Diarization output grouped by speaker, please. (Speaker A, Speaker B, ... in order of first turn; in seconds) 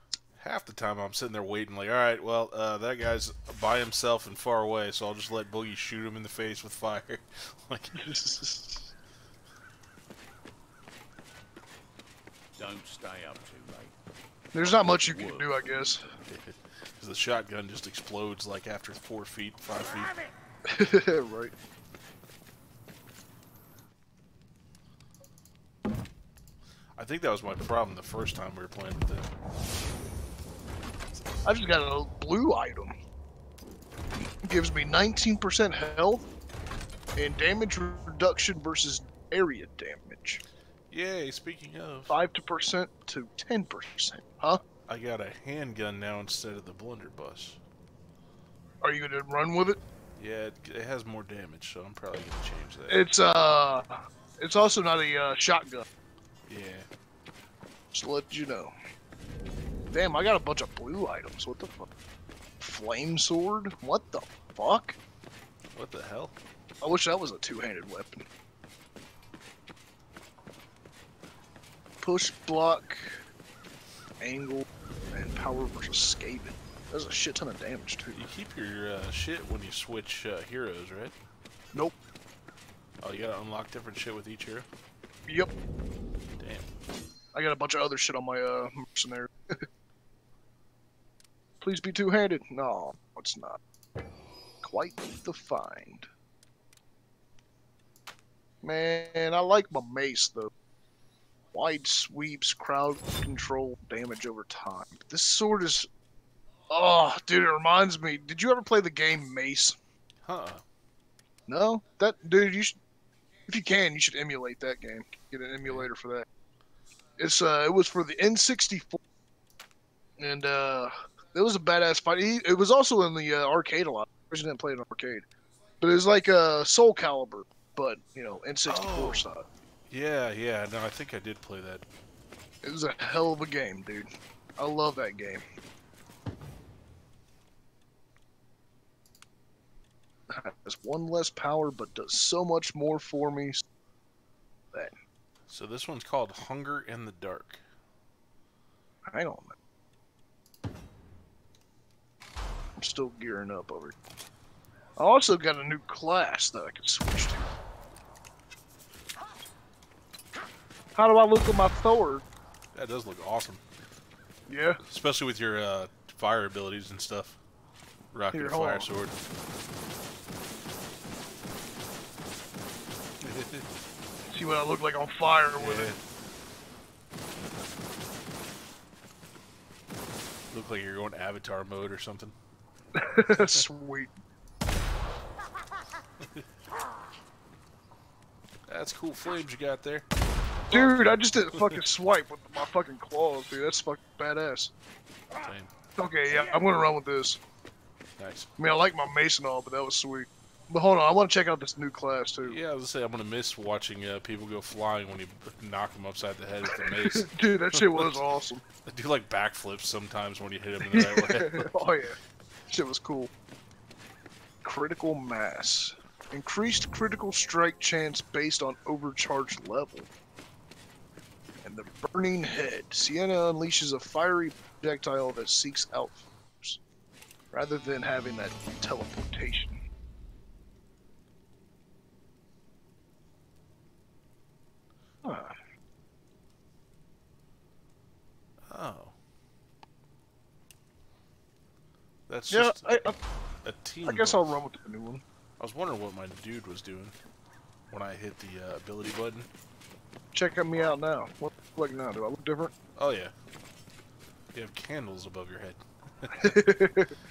Speaker A: 0.4-8.1, 16.3-20.1, 26.9-29.3, 40.9-42.1, 44.9-47.6, 50.2-53.0, 56.5-56.9, 65.7-66.3, 78.1-81.1, 83.0-84.7, 86.4-86.7, 110.2-110.6, 128.7-129.3, 129.9-131.8, 145.5-147.6, 162.7-163.6, 164.9-167.4, 168.1-169.2, 173.2-173.7, 175.6-176.0, 180.5-182.3, 183.2-183.6, 188.7-190.1, 190.7-191.8, 195.4-195.7, 198.2-198.5, 202.4-208.2, 208.8-211.7, 238.7-239.1, 242.3-243.0, 243.6-244.4, 245.6-247.1, 247.9-249.5, 252.9-253.3, 254.5-256.5
Speaker B: 7.9-8.9, 14.5-16.0, 20.6-21.5, 31.4-32.9, 34.1-36.3, 37.1-40.4, 42.1-44.6, 48.8-49.8, 52.9-55.9, 57.9-58.7, 59.9-61.9, 62.6-65.0, 66.8-68.2, 72.0-73.2, 74.2-78.3, 85.3-85.5, 87.3-89.7, 91.6-93.6, 94.6-96.1, 98.6-100.5, 101.5-105.9, 106.7-109.8, 111.5-112.8, 113.5-116.3, 117.2-119.0, 120.2-125.2, 125.8-129.5, 132.6-134.1, 134.6-135.4, 140.3-143.6, 149.1-149.6, 152.8-153.9, 155.0-157.6, 160.9-162.3, 164.5-164.8, 168.3-168.9, 174.3-175.9, 182.9-184.1, 190.7-194.7, 195.9-197.4, 198.6-202.6, 206.8-208.6, 210.8-212.2, 212.7-213.3, 214.6-220.1, 221.6-226.8, 227.5-229.8, 235.2-235.6, 242.5-243.2, 244.1-245.2, 250.3-252.7, 256.4-257.1
Speaker C: 12.6-13.9, 14.6-15.5